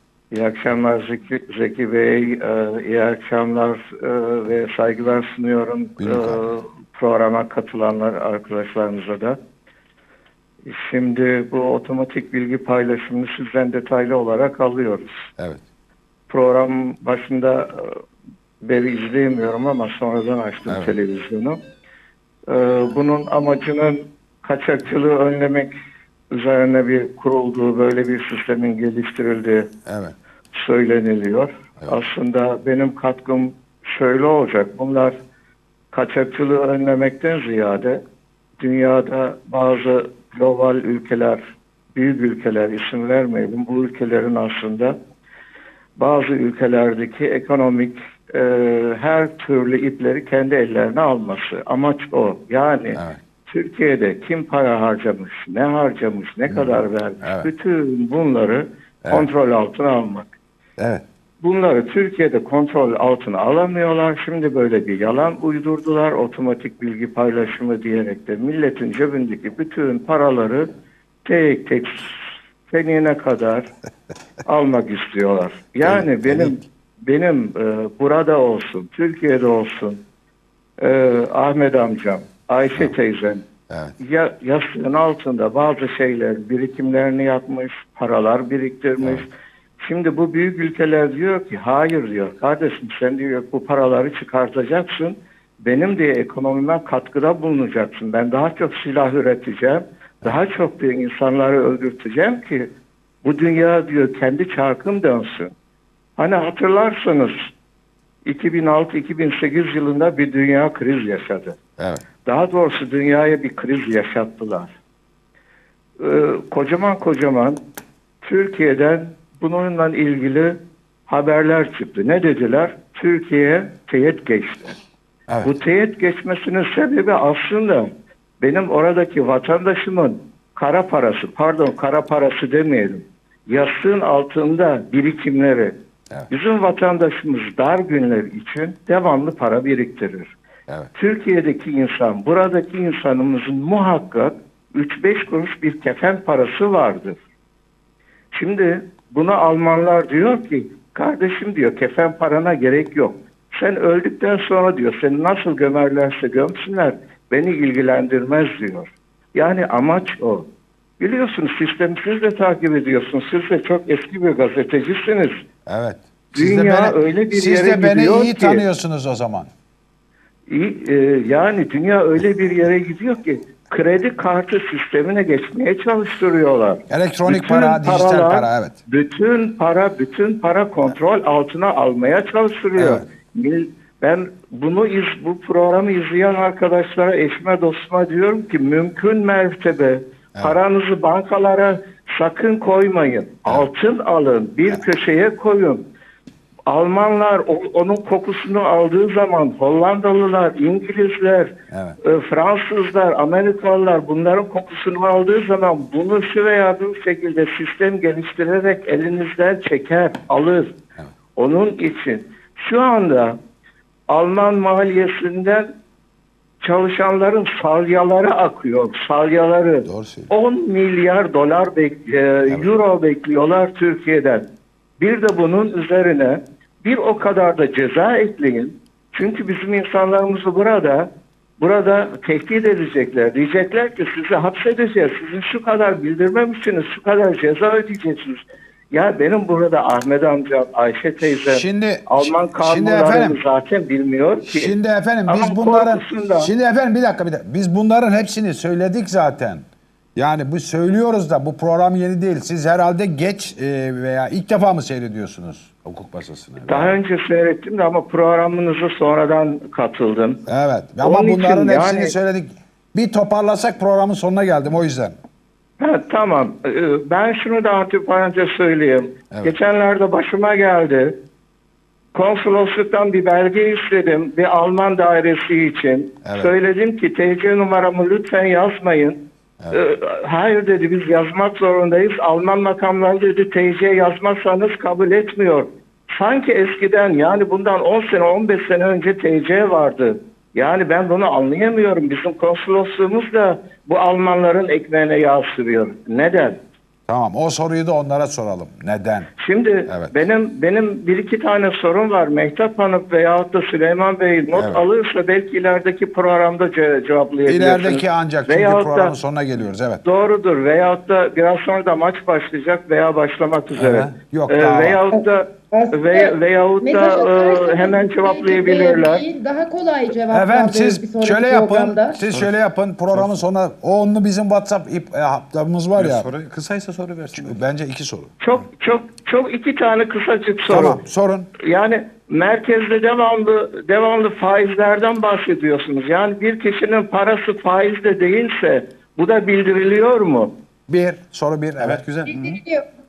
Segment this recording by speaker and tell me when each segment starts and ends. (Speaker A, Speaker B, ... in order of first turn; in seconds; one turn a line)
Speaker A: 0.3-9.4
Speaker B: 6.0-6.5
Speaker A: 10.6-15.2
Speaker A: 16.3-18.0
Speaker A: 18.6-21.6
Speaker B: 20.7-20.9
Speaker A: 22.5-25.7
Speaker A: 26.3-29.7
Speaker B: 29.9-30.1
Speaker A: 30.5-35.2
Speaker A: 35.9-38.0
Speaker A: 38.6-41.4
Speaker A: 41.9-45.0
Speaker A: 46.0-60.3
Speaker B: 52.9-53.2
Speaker B: 56.5-57.5
Speaker B: 60.8-61.0
Speaker A: 61.4-70.7
Speaker A: 71.2-73.7
Speaker A: 74.4-80.0
Speaker B: 75.8-76.6
Speaker A: 80.8-83.4
Speaker A: 84.0-89.3
Speaker A: 89.8-102.7
Speaker A: 103.2-105.5
Speaker A: 106.2-107.5
Speaker A: 108.2-111.6
Speaker B: 111.8-112.0
Speaker A: 112.2-114.7
Speaker A: 116.0-117.6
Speaker A: 118.2-124.8
Speaker A: 125.4-135.7
Speaker A: 136.3-140.3
Speaker A: 140.9-147.2
Speaker A: 148.3-160.4
Speaker A: 161.0-165.4
Speaker B: 165.7-169.5
Speaker A: 166.3-168.6
Speaker A: 170.5-195.8
Speaker B: 176.9-178.8
Speaker B: 182.8-183.0
Speaker A: 196.7-210.7
Speaker B: 201.7-202.0
Speaker A: 211.3-213.4
Speaker A: 214.1-215.7
Speaker A: 216.6-224.5
Speaker B: 219.8-220.3
Speaker A: 225.0-244.8
Speaker B: 241.4-243.4
Speaker B: 244.4-249.6
Speaker A: 245.3-246.5
Speaker B: 250.2-257.0
Speaker A: 256.6-260.4
Speaker B: 260.5-265.1
Speaker A: 261.0-262.1
Speaker A: 265.8-271.1
Speaker A: 272.1-279.2
Speaker B: 276.2-276.5
Speaker A: 279.7-296.6
Speaker B: 297.1-299.3
Speaker A: 299.4-309.1
Speaker B: 304.5-304.8
Speaker B: 307.5-310.0
Speaker A: 310.0-319.2
Speaker B: 313.8-315.0
Speaker C: 315.1-322.2
Speaker B: 320.3-326.3
Speaker D: 323.1-323.4
Speaker D: 325.9-327.6
Speaker B: 327.3-328.3
Speaker A: 328.4-331.0
Speaker B: 330.7-331.5
Speaker A: 331.6-340.5
Speaker B: 340.9-342.0
Speaker D: 341.8-342.6
Speaker C: 342.2-342.9